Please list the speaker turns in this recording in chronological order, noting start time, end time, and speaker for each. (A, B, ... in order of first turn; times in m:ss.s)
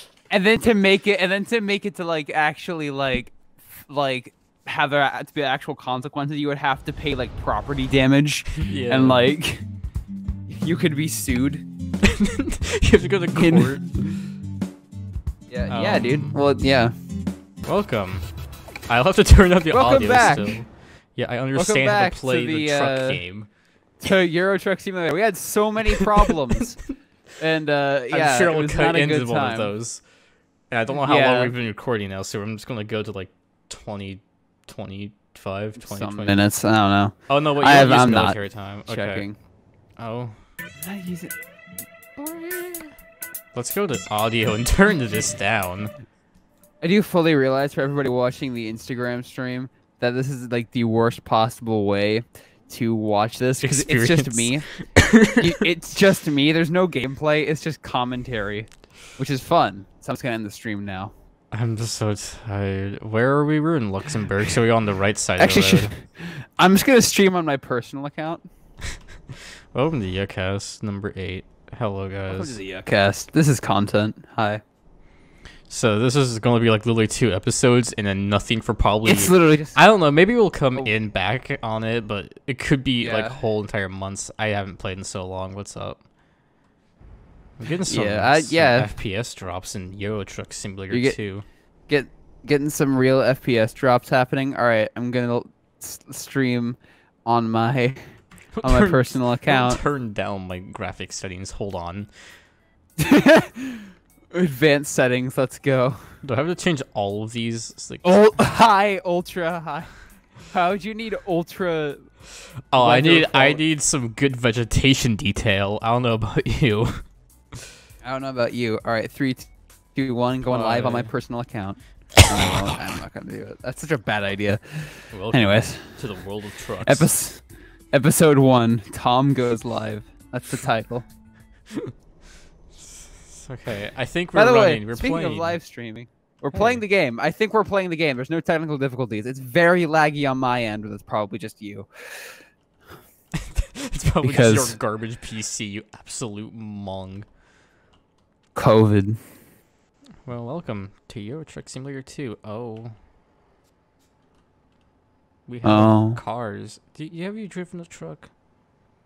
0:00.3-0:09.6 A
0:08.5-0:09.2 B
0:10.5-0:11.6 A
0:12.0-0:13.9 B
0:13.4-0:14.2 A
0:15.5-0:16.9 A
0:15.7-0:16.4 B
0:17.6-0:18.3 B
0:18.9-0:23.5 B
0:19.7-0:20.7 A
0:21.6-0:23.2 A
0:24.0-0:29.7 A
0:28.1-0:30.1 B
0:30.7-0:36.4 B
0:31.0-0:31.5 A
0:35.8-0:39.4 A
0:37.3-0:39.3 B
0:40.0-0:40.4 B
0:40.8-0:41.3 A
0:42.2-0:42.9 B
0:43.5-0:45.9 B
0:46.8-1:01.1 A
0:53.6-0:55.4 B
1:01.5-1:05.9 B
1:05.4-1:08.4 A
1:09.7-1:12.6 B
1:12.3-1:14.6 A
1:15.7-1:26.0 B
1:19.0-1:19.8 A
1:23.0-1:23.4 A
1:27.6-1:31.5 B
1:27.9-1:28.9 A
1:30.9-1:31.2 A
1:31.9-1:38.0 A
1:38.6-1:42.1 B
1:38.6-1:39.8 A
1:43.0-1:46.1 A
1:46.2-1:48.2 B
1:48.0-1:49.9 A
1:50.5-1:52.1 A
1:52.7-1:57.0 B
1:52.8-1:53.6 A
1:58.0-2:06.0 A
2:00.5-2:01.1 B
2:05.1-2:07.1 B
2:06.8-2:11.1 A
2:12.8-2:15.6 B
2:14.3-2:22.4 A
2:16.5-2:16.8 B
2:23.4-2:27.3 B
2:24.2-2:24.8 A
2:28.6-2:29.2 A
2:30.2-2:33.0 B
2:35.5-2:38.3 B
2:35.6-2:36.2 A